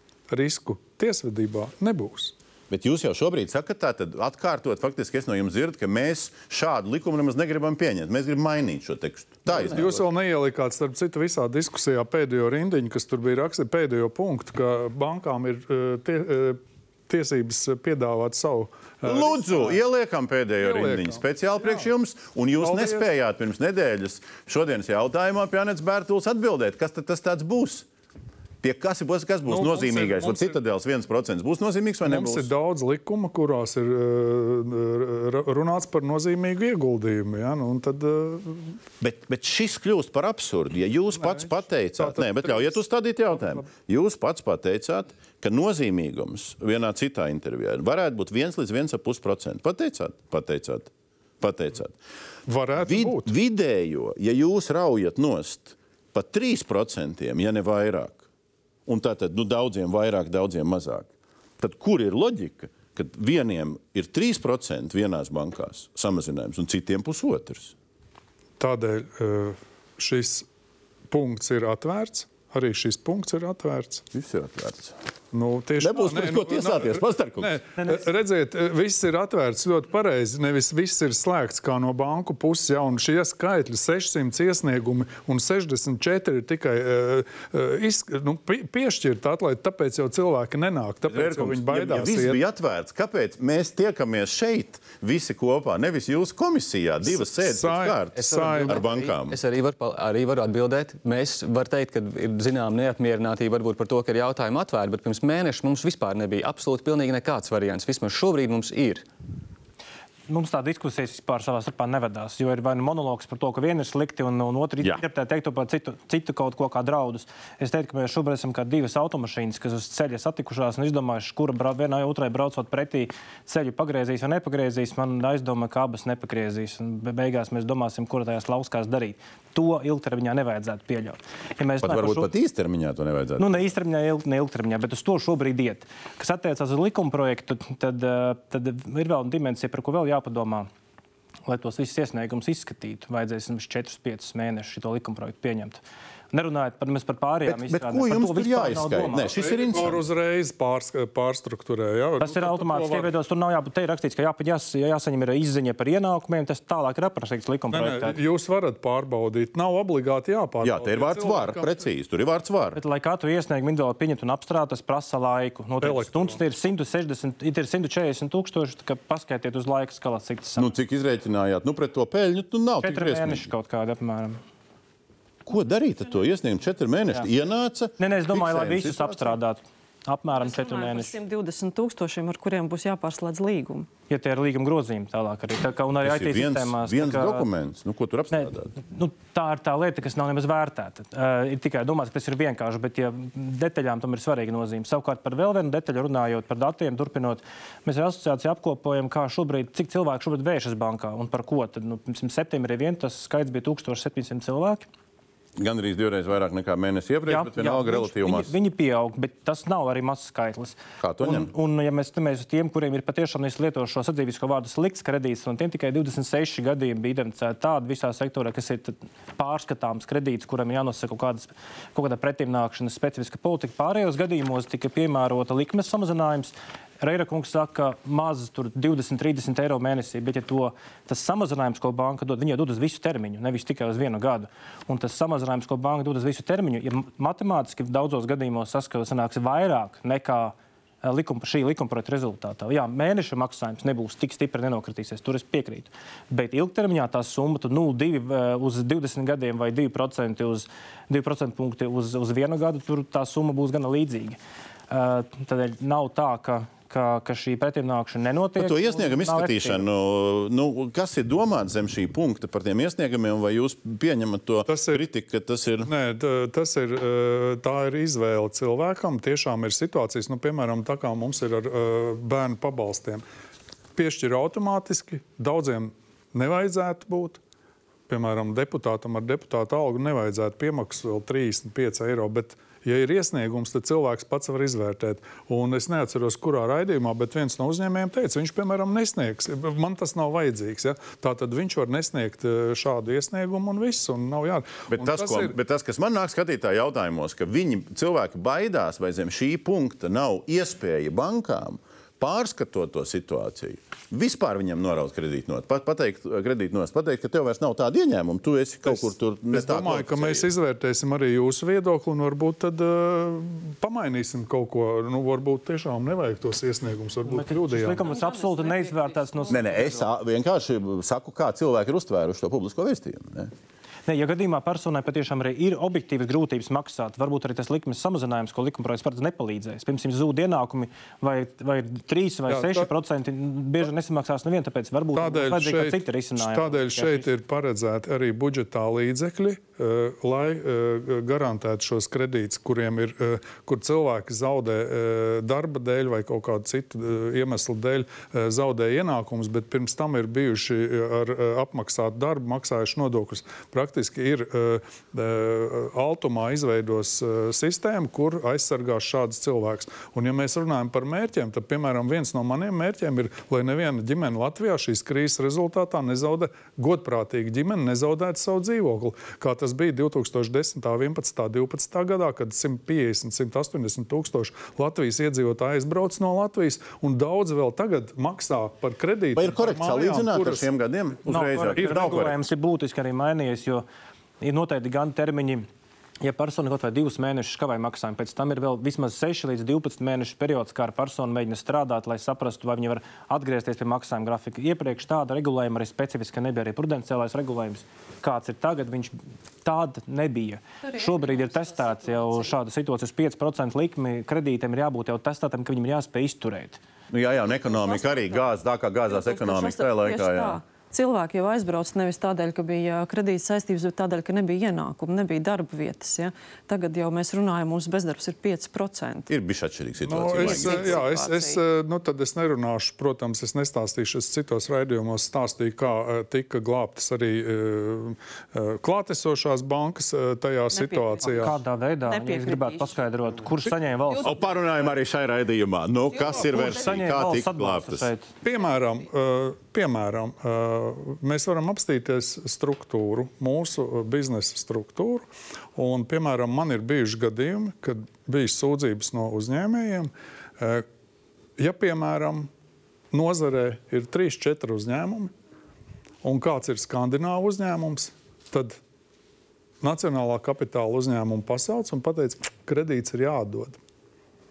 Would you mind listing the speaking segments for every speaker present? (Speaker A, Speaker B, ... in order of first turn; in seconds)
Speaker A: 0.3-2.3, 9.5-19.8, 20.6-21.9, 22.6-23.1, 29.5-30.6, 32.0-38.8, 41.2-42.8, 52.5-53.3, 68.6-70.5, 71.1-74.0, 75.3-92.4, 97.0-98.9, 149.4-153.1, 157.7-161.7, 165.8-166.4, 264.7-265.0, 265.8-273.2, 273.9-277.4, 278.1-295.6, 308.9-318.1, 332.5-332.9, 335.1-380.7, 381.8-382.3, 420.1-431.6, 438.4-450.8, 451.6-452.5, 453.1-455.3, 456.2-458.8, 459.8-463.8
Speaker B: 2.7-10.1, 19.0-27.9, 28.6-32.5, 39.0-51.9, 52.8-58.2, 58.9-61.1, 61.6-67.7, 74.1-75.0, 75.8-77.6, 91.1-99.4, 131.8-133.7, 147.4-150.0, 160.6-162.8, 170.6-173.5, 175.4-179.4, 186.0-188.8, 205.6-208.5, 211.0-211.5, 258.6-265.9, 294.9-310.5, 319.5-323.5, 379.3-382.4, 407.1-410.6, 419.3-421.1, 434.2-438.1
Speaker C: 98.2-109.0
Speaker D: 110.3-132.3, 133.4-140.7, 141.4-145.8, 146.3-149.4, 152.2-158.2, 162.7-170.7, 172.8-174.4, 178.0-181.1, 184.1-187.4, 188.3-204.9, 207.3-254.4, 254.9-259.8, 317.2-320.0, 324.1-337.3, 381.2-383.9, 384.4-385.7, 386.2-406.8, 431.2-434.4, 436.2-438.3
Speaker E: 180.3-183.9, 318.0-320.0, 400.8-402.6, 407.6-408.6, 409.1-419.3, 420.3-421.6, 430.7-434.4